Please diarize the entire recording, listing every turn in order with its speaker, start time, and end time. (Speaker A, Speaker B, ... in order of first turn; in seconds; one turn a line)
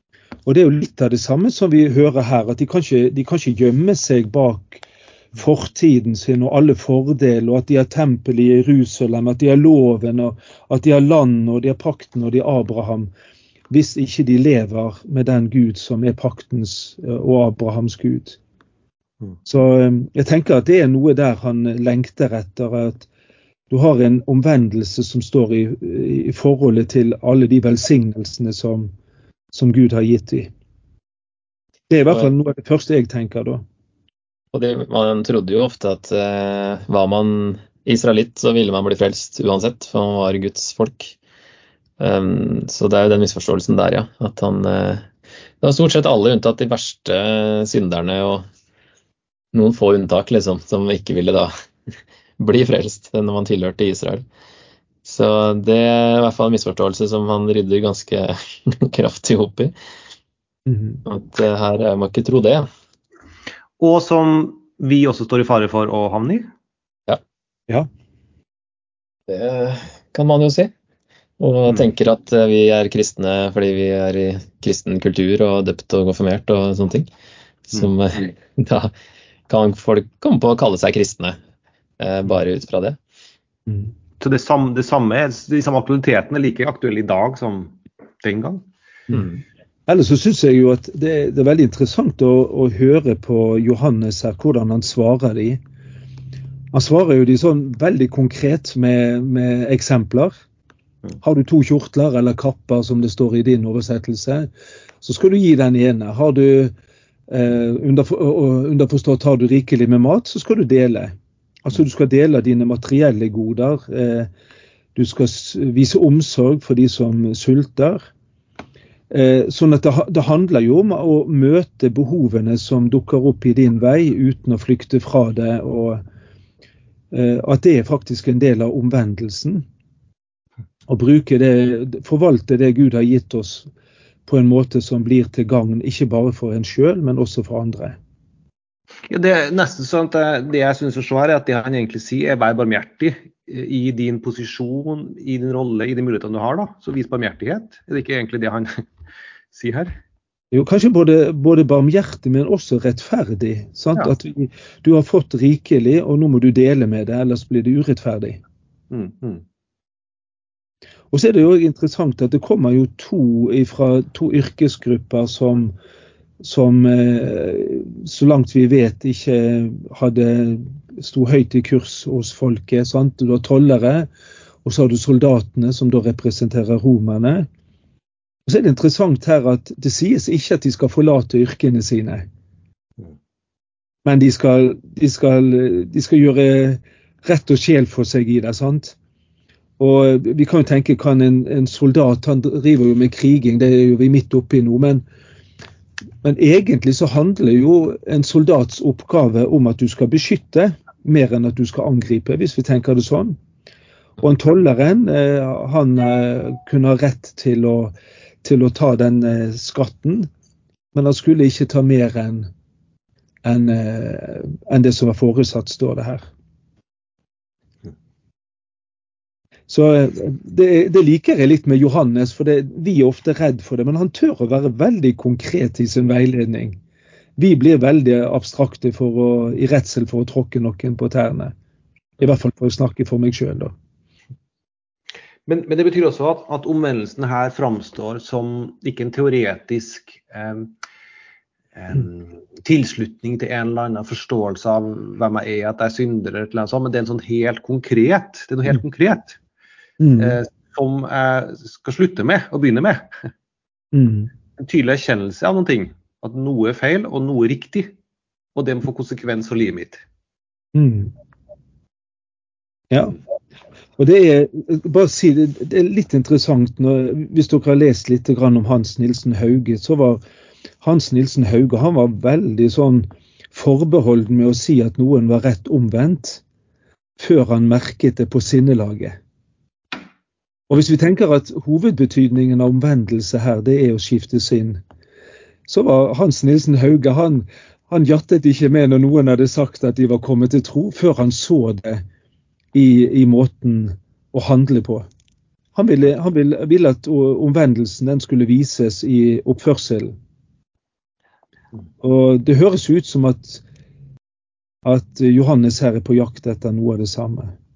Speaker A: 0.5-4.8
Speaker A: 5.3-13.1
Speaker A: 13.7-18.4
Speaker A: 19.4-23.1
Speaker A: 23.7-28.9
Speaker A: 29.5-30.5
Speaker A: 31.9-33.6
Speaker B: 34.5-41.1
Speaker B: 42.0-45.1
Speaker B: 45.6-48.5
Speaker B: 49.5-51.5
Speaker B: 52.4-54.2
Speaker B: 55.0-59.7
Speaker A: 60.6-61.0
Speaker B: 61.0-62.7
Speaker C: 63.8-66.5
Speaker B: 69.3-70.7
Speaker B: 71.4-77.1
Speaker B: 77.7-78.9
Speaker B: 79.5-81.3
Speaker B: 82.0-83.0
Speaker A: 83.7-83.9
Speaker C: 84.2-88.7
Speaker A: 89.9-95.6
Speaker A: 96.7-100.3
Speaker A: 101.2-104.5
Speaker A: 105.0-106.7
Speaker A: 107.3-111.1
Speaker A: 111.7-114.3
Speaker A: 114.9-118.1
Speaker A: 119.1-126.0
Speaker A: 127.1-129.6
Speaker A: 130.9-133.7
Speaker A: 134.2-138.0
Speaker C: 139.1-148.8
Speaker C: 149.5-149.9
Speaker A: 150.5-158.4
Speaker C: 158.9-159.4
Speaker A: 161.1-165.7
Speaker A: 166.4-174.1
Speaker A: 174.6-177.5
Speaker A: 178.4-182.2
Speaker A: 184.0-188.9
Speaker A: 189.8-195.0
Speaker A: 196.2-203.4
Speaker A: 204.2-210.3
Speaker A: 210.9-212.5
Speaker A: 213.4-216.3
Speaker A: 219.7-226.8
Speaker A: 227.4-231.5
Speaker A: 232.2-233.7
Speaker C: 235.5-240.8
Speaker C: 241.7-249.4
Speaker A: 250.0-250.4
Speaker C: 250.2-253.3
Speaker A: 253.9-254.3
Speaker C: 254.6-257.9
Speaker C: 258.5-260.0
Speaker A: 260.7-261.1
Speaker A: 262.9-263.1
Speaker A: 264.0-270.2
Speaker A: 270.8-276.4
Speaker A: 277.2-279.2
Speaker A: 280.7-284.8
Speaker A: 285.7-292.0
Speaker A: 292.7-295.1
Speaker A: 295.7-300.1
Speaker A: 302.0-303.6
Speaker A: 304.8-307.5